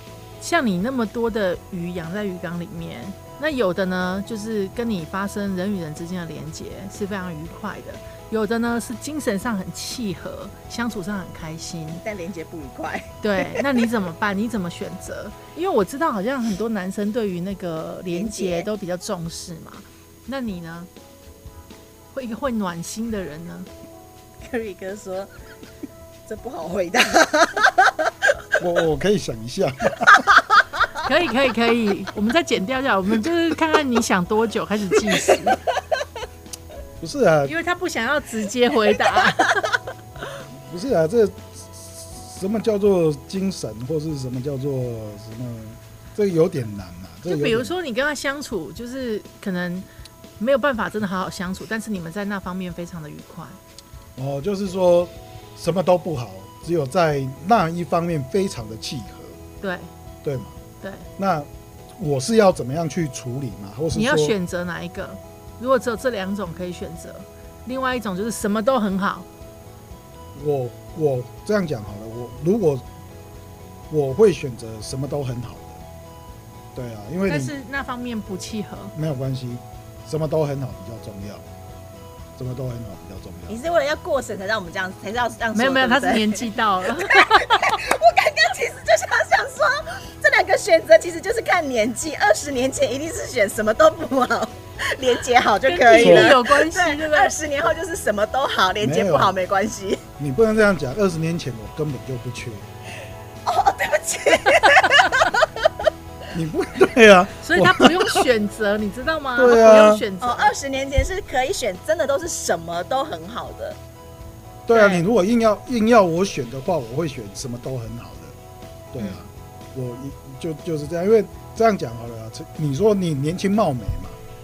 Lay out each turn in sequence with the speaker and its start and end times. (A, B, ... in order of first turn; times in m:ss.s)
0:00.4-0:12.0 A
0:12.0-0:13.6 B
0:13.2-0:20.9 A
0:18.1-0:18.7 B
0:22.1-0:23.7 A
0:24.4-0:25.3 B
0:26.3-0:28.1 B
0:28.6-0:30.2 C
0:31.0-0:35.6 A
0:37.0-0:37.5 C
0:37.4-0:39.7 A
0:40.6-0:47.7 C
0:47.2-0:49.9 A
0:50.4-0:53.6 A
0:54.2-0:59.4 C
0:59.6-0:59.9 A
1:00.2-1:00.6 C
1:00.8-1:01.1 A
1:01.2-1:04.3 C
1:03.9-1:09.2 A
1:10.3-1:12.8 C
1:13.9-1:15.8 C
1:16.7-1:17.5 C
1:17.2-1:18.9 A
1:18.9-1:21.5 C
1:22.4-1:23.6 C
1:23.5-1:40.0 B
1:25.5-1:27.8 A
1:35.7-1:37.3 A
1:36.0-1:36.3 C
1:38.8-1:39.4 C
1:40.2-1:42.7 C
1:43.4-1:45.4 B
1:46.3-1:48.2 C
1:47.4-1:50.5 A
1:49.4-1:50.0 C
1:50.2-1:53.8 B
1:54.7-1:58.4 C
1:54.7-1:55.0 B
1:58.9-2:04.2 C